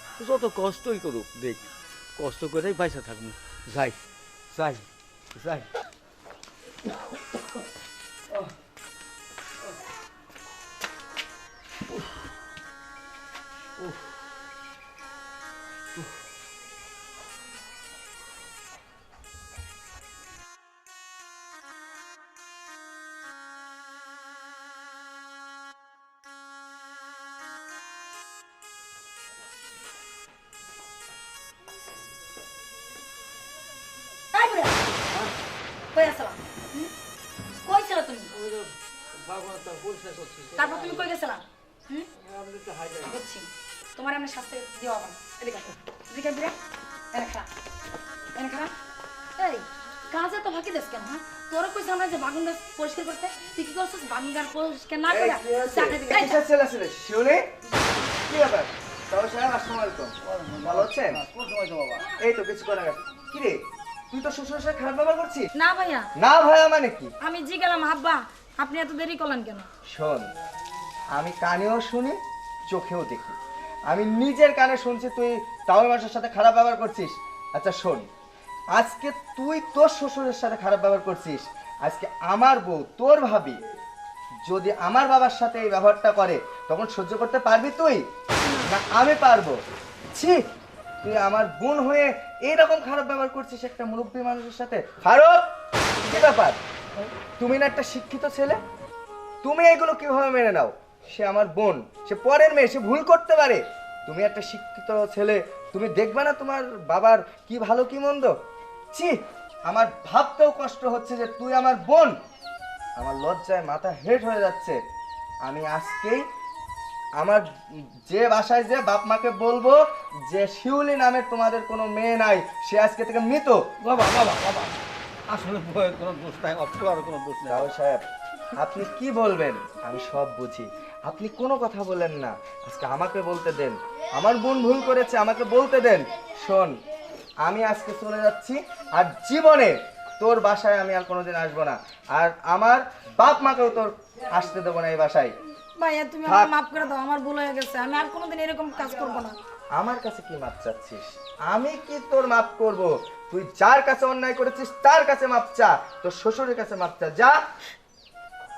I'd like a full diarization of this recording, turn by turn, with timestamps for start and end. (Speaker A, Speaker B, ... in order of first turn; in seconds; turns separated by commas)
Speaker A: 0.2-4.0, Speaker A: 4.5-5.7, Speaker A: 13.8-14.1, Speaker B: 34.3-34.8, Speaker B: 35.9-36.9, Speaker B: 37.6-38.3, Speaker A: 38.3-41.1, Speaker B: 40.5-42.1, Speaker A: 42.2-43.1, Speaker B: 43.0-46.5, Speaker B: 47.1-47.5, Speaker B: 48.4-48.7, Speaker B: 49.4-56.4, Speaker C: 55.1-57.5, Speaker B: 57.7-58.0, Speaker C: 58.1-61.2, Speaker A: 60.2-62.1, Speaker C: 62.1-63.6, Speaker C: 64.1-65.5, Speaker B: 65.5-66.1, Speaker C: 66.2-67.1, Speaker B: 67.2-69.7, Speaker C: 69.9-70.2, Speaker C: 71.1-72.2, Speaker C: 72.7-73.3, Speaker C: 73.9-78.0, Speaker C: 78.7-83.6, Speaker C: 84.5-88.0, Speaker B: 88.4-88.7, Speaker C: 88.6-89.6, Speaker C: 90.1-90.4, Speaker C: 91.0-95.4, Speaker C: 96.0-96.6, Speaker C: 97.4-98.6, Speaker C: 99.4-108.3, Speaker C: 108.9-112.1, Speaker C: 113.0-114.8, Speaker C: 115.4-116.2, Speaker C: 117.2-123.6, Speaker A: 123.8-127.7, Speaker C: 127.4-128.1, Speaker C: 128.6-136.7, Speaker C: 137.4-145.3, Speaker B: 145.8-149.3, Speaker C: 146.2-146.5, Speaker C: 149.8-157.4